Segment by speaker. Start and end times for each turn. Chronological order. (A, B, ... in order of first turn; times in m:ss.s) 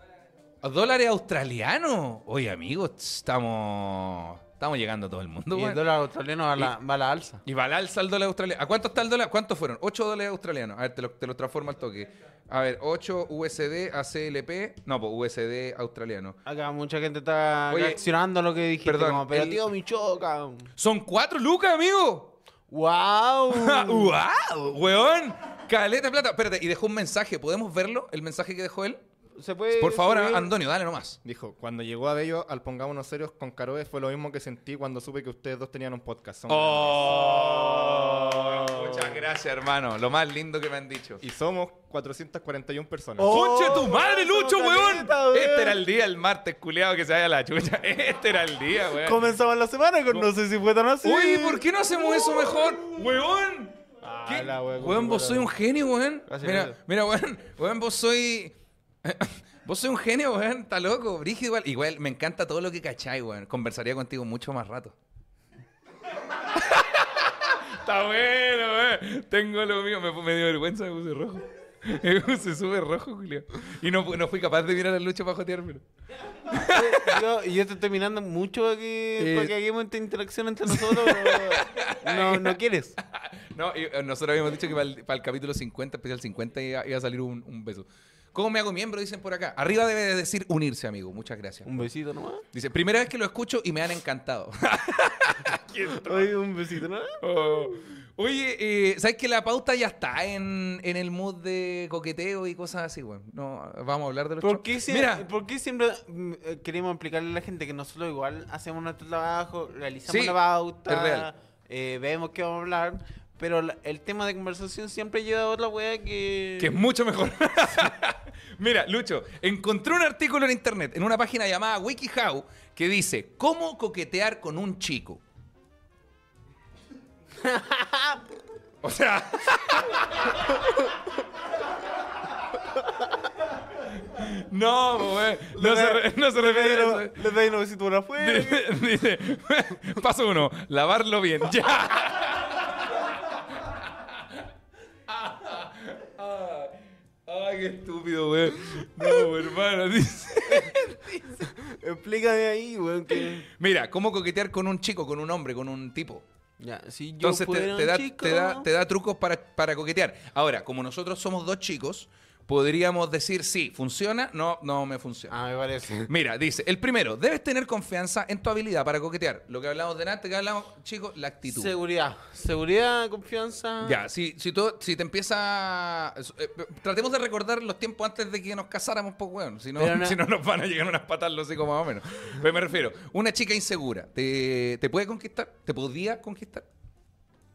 0:00.6-0:05.8 A
0:05.5-0:07.4 B
0:07.4-0:16.4 A
0:16.4-0:20.7 B
0:17.7-0:18.0 A
0:18.8-0:19.7 A
0:20.8-0:22.4 A
0:22.7-0:24.2 B
0:23.5-0:29.0 A
0:29.4-0:30.5 B
0:29.8-0:31.2 A
0:31.2-0:37.7 C
0:36.5-0:41.2 A
0:41.2-0:43.3 C
0:43.2-0:45.8 B
0:43.3-0:49.3 A
0:49.0-0:51.6 B
0:51.0-1:05.0 A
0:54.0-0:55.5 B
0:56.3-0:56.8 B
1:06.4-1:15.8 A
1:16.4-1:17.2 A
1:16.6-1:23.0 B
1:19.2-1:19.5 A
1:20.7-1:31.9 A
1:31.6-1:32.4 B
1:32.5-1:36.3 A
1:36.0-1:37.2 B
1:37.2-1:45.3 A
1:44.4-1:56.8 B
1:50.1-1:51.3 A
1:56.6-2:05.2 A
2:07.4-2:08.2 B
2:08.8-2:10.6 A
2:13.9-2:17.3 A
2:15.5-2:18.7 B
2:18.2-2:24.3 A
2:25.1-2:31.4 A
2:30.5-2:33.5 B
2:33.2-2:36.2 A
2:36.6-2:38.7 B
2:37.2-2:45.4 A
2:45.3-2:46.1 B
2:46.1-2:51.7 A
2:51.4-2:54.0 B
2:53.8-3:06.7 A
2:59.8-3:00.2 B